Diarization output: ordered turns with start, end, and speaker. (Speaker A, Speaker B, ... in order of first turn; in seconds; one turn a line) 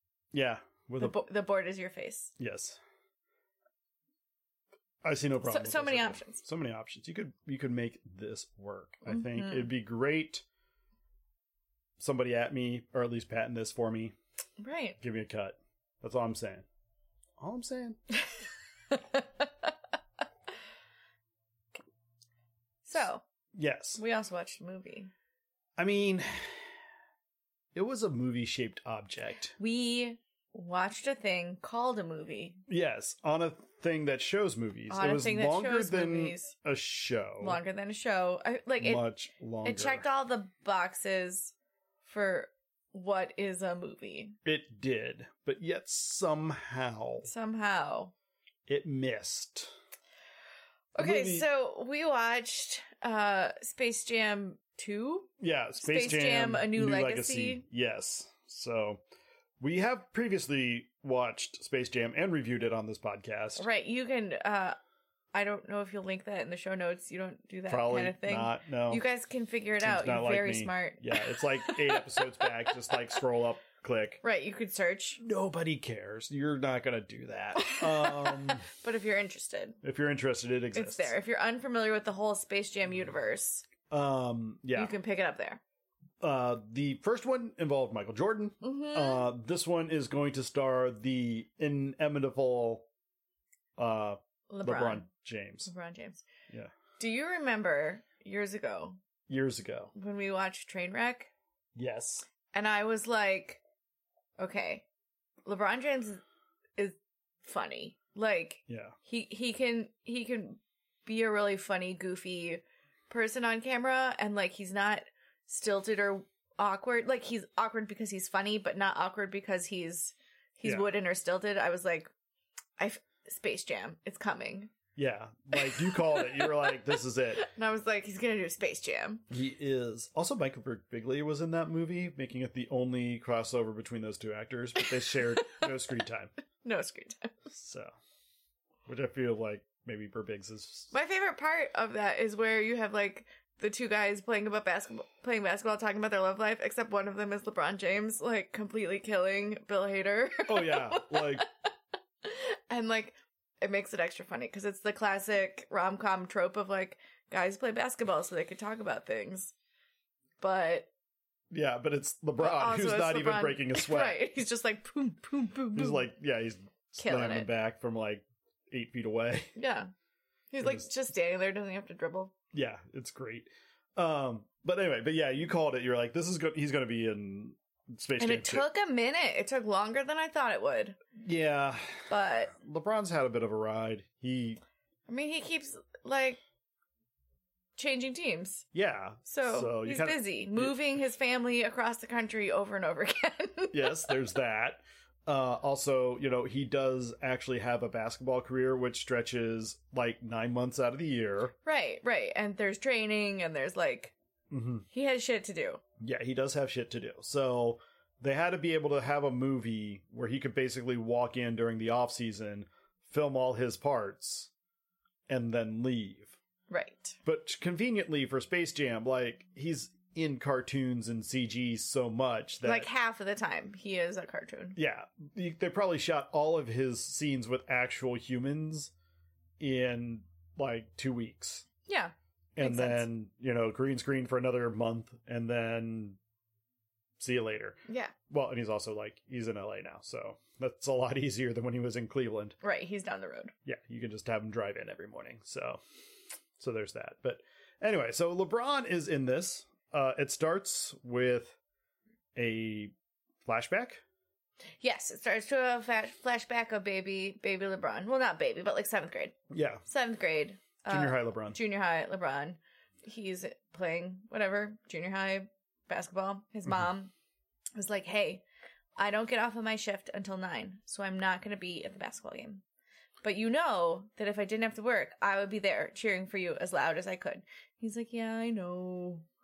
Speaker A: 0.3-1.2
Speaker B: 1.0-2.3
Speaker A: 2.4-2.8
Speaker A: 5.0-10.4
Speaker B: 5.5-6.4
Speaker B: 9.1-9.7
Speaker A: 12.0-14.2
Speaker B: 14.6-15.0
Speaker A: 15.0-16.7
Speaker A: 17.4-18.0
Speaker B: 18.9-19.7
Speaker B: 22.9-23.2
Speaker A: 23.6-24.0
Speaker B: 24.0-25.1
Speaker A: 25.8-26.6
Speaker A: 27.7-29.6
Speaker B: 29.6-32.6
Speaker A: 32.7-37.6
Speaker B: 34.9-36.5
Speaker B: 37.4-39.1
Speaker A: 38.8-40.0
Speaker B: 39.6-41.5
Speaker B: 42.0-44.4
Speaker A: 44.5-47.3
Speaker B: 47.2-48.1
Speaker A: 48.7-49.7
Speaker B: 51.0-57.6
Speaker A: 51.0-51.5
Speaker A: 55.4-59.0
Speaker A: 59.6-63.7
Speaker B: 63.6-64.8
Speaker B: 65.3-72.0
Speaker A: 67.7-69.0
Speaker A: 69.8-74.2
Speaker B: 74.2-75.2
Speaker A: 75.2-78.7
Speaker B: 77.6-79.8
Speaker A: 79.8-81.2
Speaker B: 80.7-83.7
Speaker A: 83.9-85.0
Speaker B: 84.7-85.6
Speaker A: 86.2-92.9
Speaker B: 88.6-89.3
Speaker A: 93.8-95.7
Speaker B: 94.5-95.1
Speaker B: 95.7-96.3
Speaker B: 97.0-99.0
Speaker A: 99.3-99.9
Speaker B: 100.0-101.3
Speaker A: 101.8-102.3
Speaker B: 102.5-103.6
Speaker B: 104.4-104.8
Speaker B: 105.5-106.2
Speaker B: 106.8-122.1
Speaker A: 108.7-109.0
Speaker B: 122.8-124.7
Speaker A: 125.0-127.5
Speaker B: 125.6-129.3
Speaker A: 129.3-136.3
Speaker B: 135.4-135.6
Speaker B: 136.6-137.3
Speaker A: 137.5-137.9
Speaker A: 138.9-140.9
Speaker B: 140.9-151.5
Speaker A: 150.5-151.5
Speaker B: 152.2-159.5
Speaker B: 160.4-160.9
Speaker A: 161.5-164.2
Speaker B: 162.4-166.1
Speaker A: 165.8-169.5
Speaker B: 167.0-167.5
Speaker B: 169.6-169.9
Speaker B: 170.5-172.3
Speaker A: 172.5-178.7
Speaker B: 178.2-181.0
Speaker A: 181.2-184.6
Speaker B: 182.1-182.5
Speaker B: 185.1-186.4
Speaker B: 187.8-188.7
Speaker A: 188.7-190.8
Speaker B: 189.3-194.2
Speaker A: 193.7-201.5
Speaker B: 201.6-204.2
Speaker A: 204.5-204.9
Speaker B: 204.9-205.8
Speaker A: 206.0-214.5
Speaker A: 215.3-216.4
Speaker B: 216.7-217.2
Speaker A: 217.2-222.9
Speaker B: 222.6-224.8
Speaker A: 224.8-228.9
Speaker A: 229.6-231.7
Speaker B: 231.9-233.1
Speaker A: 232.6-236.2
Speaker A: 237.2-242.6
Speaker B: 237.9-238.1
Speaker B: 242.6-243.5
Speaker A: 243.7-245.8
Speaker A: 246.6-251.6
Speaker A: 252.3-252.9
Speaker A: 253.4-254.0
Speaker B: 254.8-259.4
Speaker A: 259.5-259.8
Speaker B: 259.9-267.1
Speaker A: 260.9-261.6
Speaker B: 267.8-268.4
Speaker B: 269.0-272.6
Speaker B: 273.2-279.3